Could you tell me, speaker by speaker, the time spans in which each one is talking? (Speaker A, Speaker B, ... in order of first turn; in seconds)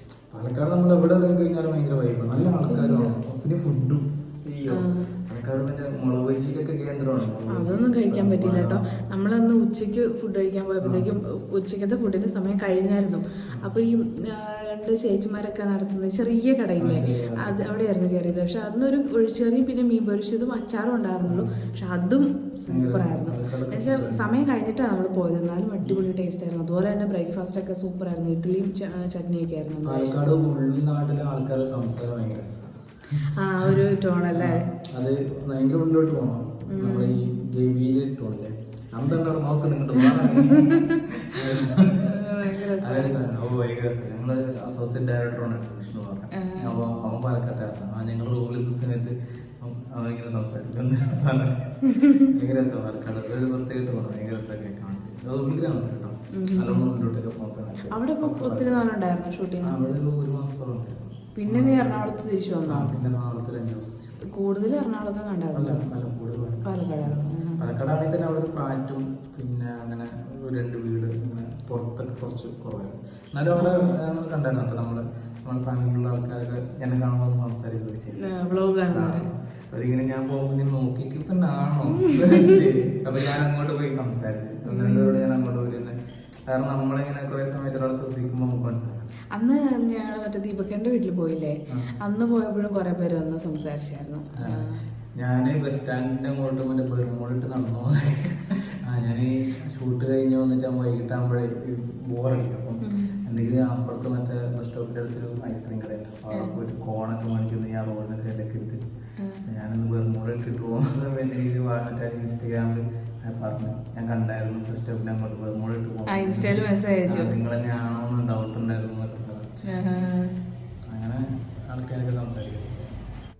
Speaker A: 0.3-8.8, 10.8-11.2, 16.8-17.6, 21.3-21.6, 22.7-24.4, 29.8-58.8, 59.6-62.1, 62.7-64.3, 65.5-78.3, 78.9-86.0, 86.5-89.1, 91.7-92.0, 95.2-108.8, 109.5-119.6, 120.9-123.0
Speaker B: 2.7-3.1, 4.7-5.1, 7.5-30.2, 33.4-34.7, 36.7-37.2, 40.0-41.0, 41.6-43.3, 46.4-46.8, 51.9-52.3, 56.3-56.9, 57.9-59.8, 61.4-63.0, 64.3-65.9, 66.6-67.6, 73.5-73.9, 78.2-79.3, 82.0-82.6, 84.7-85.2, 89.3-94.8, 102.9-103.2, 116.1-117.3, 119.7-120.3